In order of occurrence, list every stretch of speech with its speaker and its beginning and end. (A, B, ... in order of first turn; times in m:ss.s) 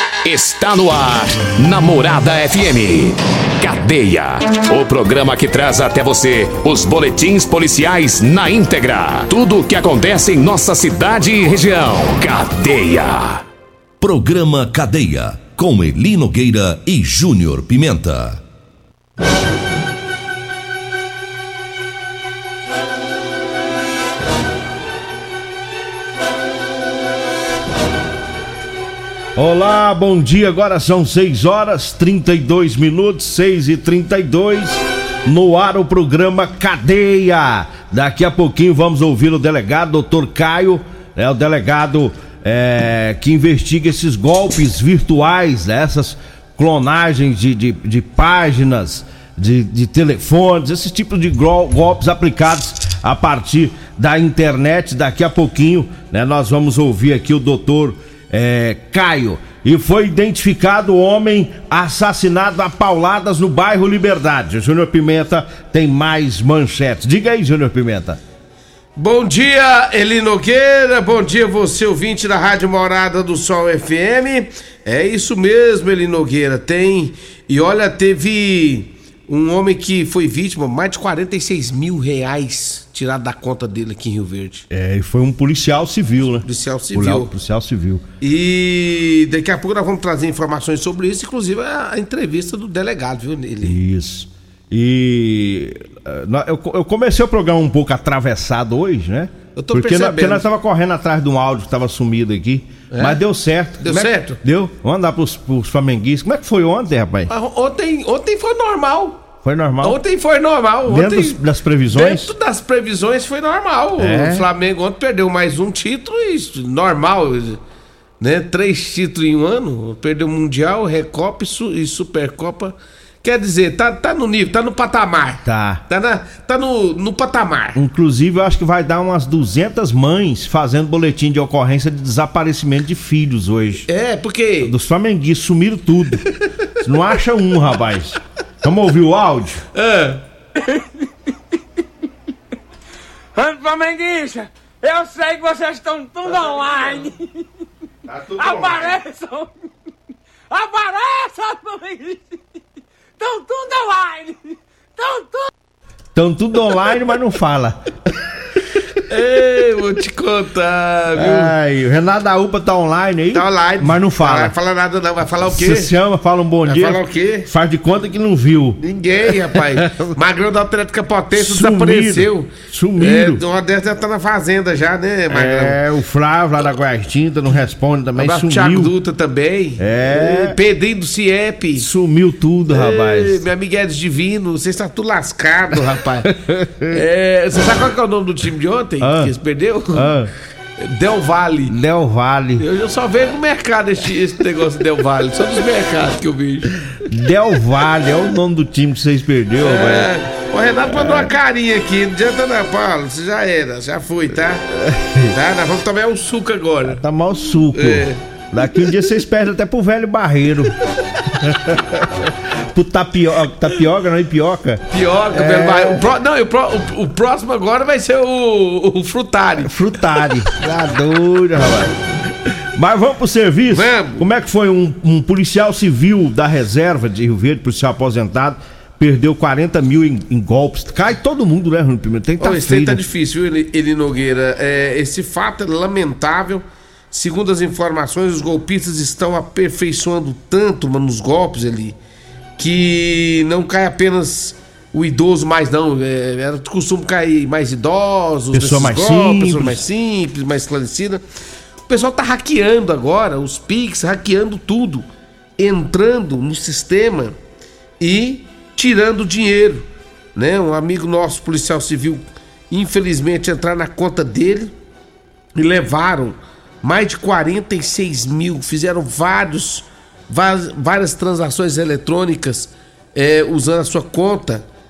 0:00.2-0:13.4 A
0:14.0-0:18.4 B
0:29.4-1:08.2 C
1:09.0-1:24.7 D
1:24.7-1:28.0 C
1:26.4-1:27.3 D
1:28.2-1:33.8 D
1:33.6-1:47.3 C
1:39.6-1:40.5 D
1:42.9-1:43.2 D
1:43.8-1:44.4 D
1:47.3-1:49.2 D
1:49.4-1:50.0 C
1:49.8-1:51.4 D
1:50.9-1:52.3 C
1:51.9-1:57.6 D
1:54.0-1:54.5 C
1:58.2-2:07.8 D
2:05.4-2:05.8 C
2:07.8-2:13.9 C
2:13.9-2:14.7 D
2:14.6-2:16.2 C
2:16.8-2:19.6 C
2:19.8-2:20.2 D
2:23.4-2:27.2 E
2:28.1-2:28.9 C
2:28.3-2:29.5 E
2:30.5-2:32.4 E
2:33.2-2:35.5 E
2:36.2-2:37.9 C
2:39.0-2:41.5 D
2:41.2-2:44.5 C
2:43.3-2:45.9 D
2:45.5-2:48.8 C
2:46.6-2:47.5 D
2:48.8-2:55.8 D
2:49.5-2:50.1 C
2:51.4-2:53.4 C
2:55.3-2:58.9 C
2:58.2-3:01.9 D
2:59.8-3:00.6 C
3:01.8-3:03.4 C
3:02.7-3:06.3 D
3:06.2-3:07.0 C
3:06.9-3:10.1 D
3:09.0-3:09.3 C
3:09.9-3:10.3 C
3:10.8-3:11.8 D
3:11.7-3:12.6 C
3:12.6-3:16.8 D
3:17.0-3:20.1 C
3:19.6-3:24.6 D
3:20.9-3:21.3 C
3:24.7-3:25.4 C
3:25.3-3:27.0 D
3:26.8-3:30.7 C
3:27.8-3:28.2 D
3:31.3-3:36.0 C
3:34.9-3:39.7 D
3:39.6-3:41.9 C
3:42.7-3:53.0 C
3:43.7-3:44.2 D
3:52.4-4:02.0 D
4:02.6-4:11.2 D
4:08.5-4:09.8 C
4:11.9-4:15.1 D
4:15.6-4:17.4 D
4:18.0-4:24.7 D
4:25.6-4:34.6 D